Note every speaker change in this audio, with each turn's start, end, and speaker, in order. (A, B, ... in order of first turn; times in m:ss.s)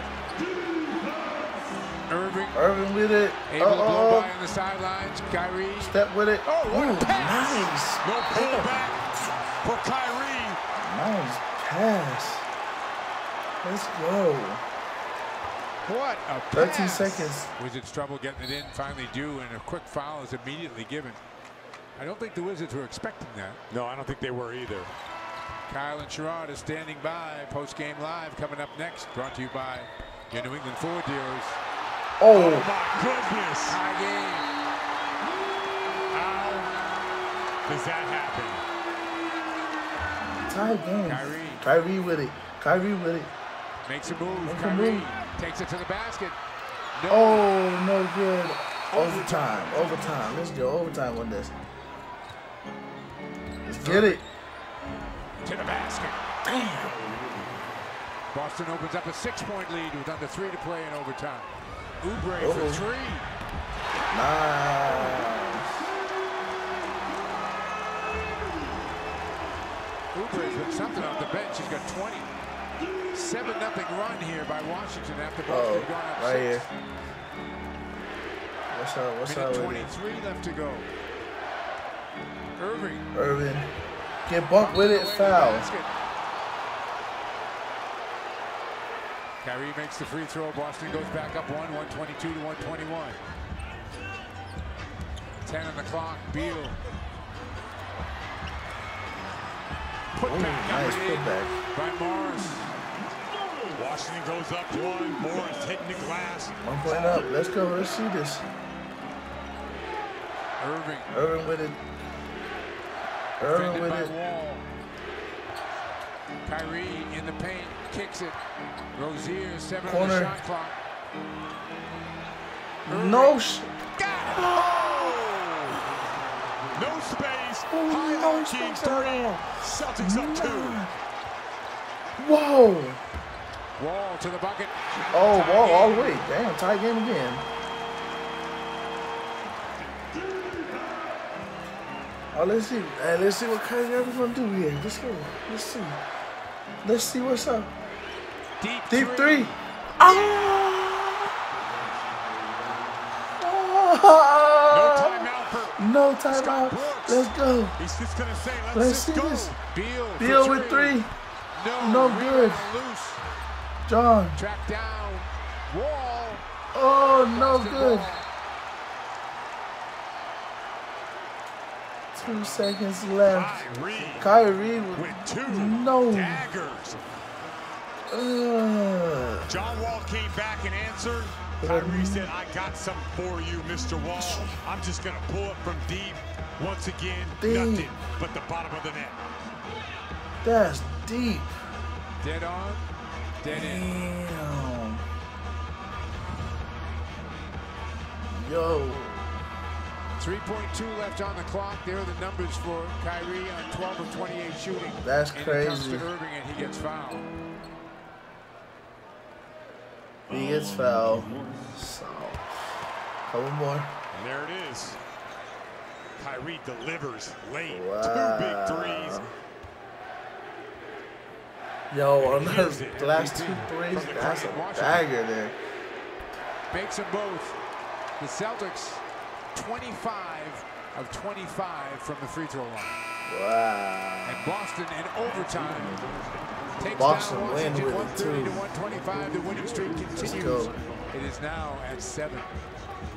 0:02.1-0:02.6 A
0:02.5-0:04.3 B
0:03.5-0:07.7 A
0:05.8-0:08.8 B
0:08.0-0:09.1 C
0:09.6-0:10.6 C
0:10.8-0:12.5 B
0:13.6-0:14.6 B
0:15.8-0:21.2 A
0:16.5-0:17.5 B
0:22.0-0:23.6 A
0:23.7-0:24.9 C
0:25.7-0:31.6 A
0:32.2-0:32.7 B
0:32.3-0:33.8 C
0:33.7-0:34.5 A
0:36.1-0:36.7 C
0:37.6-0:38.6 C
0:40.5-0:43.3 B
0:41.0-0:41.6 A
0:43.8-0:46.4 A
0:44.4-0:45.1 B
0:46.9-0:47.5 A
0:47.1-0:51.5 B
0:48.9-0:49.8 A
0:53.6-0:54.2 B
0:53.8-0:54.2 A
0:55.4-0:56.2 A
0:56.4-0:57.0 B
0:58.3-1:03.3 A
1:02.4-1:02.9 B
1:04.1-1:05.8 B
1:10.1-1:12.3 A
1:13.1-1:16.6 A
1:15.4-1:16.7 B
1:18.7-1:19.9 B
1:19.2-1:20.9 A
1:22.6-1:23.1 A
1:23.1-1:23.7 B
1:24.2-1:25.7 B
1:24.6-1:25.9 A
1:29.4-1:33.2 A
1:35.4-1:36.8 A
1:40.1-1:42.7 A
1:40.2-1:41.6 B
1:43.7-1:46.5 C
1:46.6-1:48.5 B
1:50.6-1:51.1 A
1:51.1-1:51.8 B
1:53.4-1:54.1 B
1:53.4-1:54.6 A
1:56.4-1:58.4 A
1:58.9-2:00.8 A
1:59.8-2:00.4 B
2:02.8-2:04.6 A
2:02.9-2:03.7 B
2:04.2-2:05.2 B
2:04.5-2:05.9 C
2:06.7-2:10.8 C
2:07.7-2:10.9 B
2:12.2-2:13.0 B
2:13.8-2:16.2 A
2:15.1-2:17.4 B
2:22.3-2:26.0 B
2:26.8-2:27.7 B
2:28.6-2:29.6 A
2:28.9-2:31.3 B
2:33.4-2:37.8 B
2:34.7-2:35.8 C
2:36.3-2:39.5 C
2:38.7-2:39.5 B
2:39.3-2:43.2 A
2:40.2-2:41.1 B
2:41.8-2:42.7 B
2:43.8-2:44.4 B
2:44.3-2:46.4 A
2:46.7-2:48.2 B
2:47.2-2:48.2 A
2:52.1-2:56.5 B
2:53.2-2:54.3 C
2:54.9-2:57.0 C
2:58.1-2:59.6 B
2:59.4-3:09.2 C
3:01.6-3:02.3 B
3:04.2-3:04.6 B
3:07.4-3:07.9 B
3:10.4-3:11.5 B
3:12.2-3:12.8 A
3:13.4-3:13.9 A
3:13.5-3:15.0 B
3:18.3-3:19.5 B
3:20.2-3:27.3 A
3:25.0-3:26.1 B
3:30.3-3:32.7 B
3:33.2-3:33.9 B
3:34.1-3:35.0 C
3:36.2-3:39.2 C
3:37.7-3:39.4 B
3:41.9-3:45.6 B
3:42.2-3:43.1 C
3:43.0-3:45.1 A
3:43.9-3:44.6 C
3:46.7-3:47.6 A
3:48.2-3:53.0 A
3:53.2-3:54.5 B
3:54.2-3:56.0 A
3:56.8-4:02.5 A
3:56.9-3:58.7 B
4:00.1-4:00.7 B